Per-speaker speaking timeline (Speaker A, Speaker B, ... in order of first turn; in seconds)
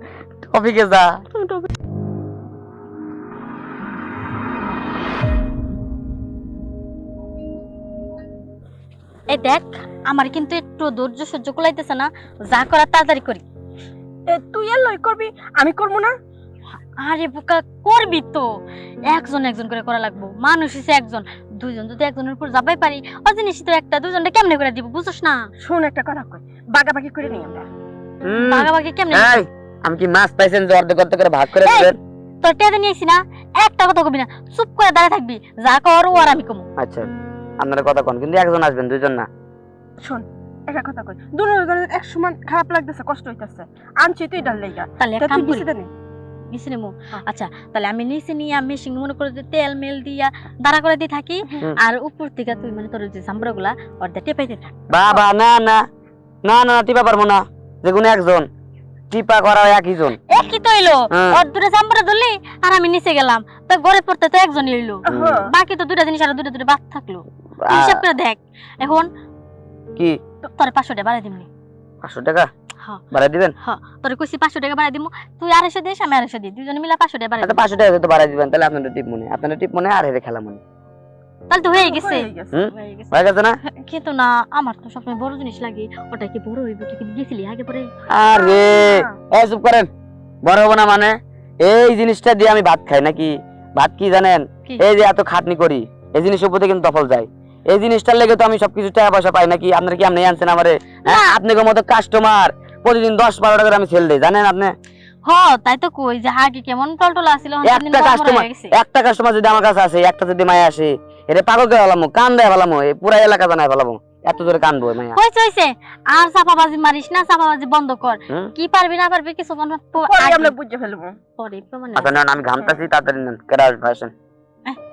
Speaker A: 0.4-1.1, 28.2-32.0, 36.8-37.1, 37.6-39.3, 54.9-55.8, 56.5-58.5, 59.1-60.2, 61.1-61.4, 65.1-65.5, 67.6-68.0, 72.0-72.5, 73.1-73.5, 77.4-80.6, 82.5-83.6, 88.1-89.9, 90.4-104.7, 107.6-115.2, 122.0-124.1
Speaker B: 1.4-1.7, 14.3-16.1, 25.6-27.7, 40.0-45.9, 65.0-65.5, 81.7-82.6, 88.3-89.1, 120.0-121.2
Speaker C: 9.3-13.4, 17.0-18.5, 19.1-25.5, 28.4-29.4, 31.6-36.7, 45.0-45.7, 46.5-54.7, 60.3-69.1, 70.5-71.5, 73.6-77.6, 81.5-83.1, 83.7-87.9, 101.1-101.4, 105.2-108.7, 115.1-120.5, 121.4-122.2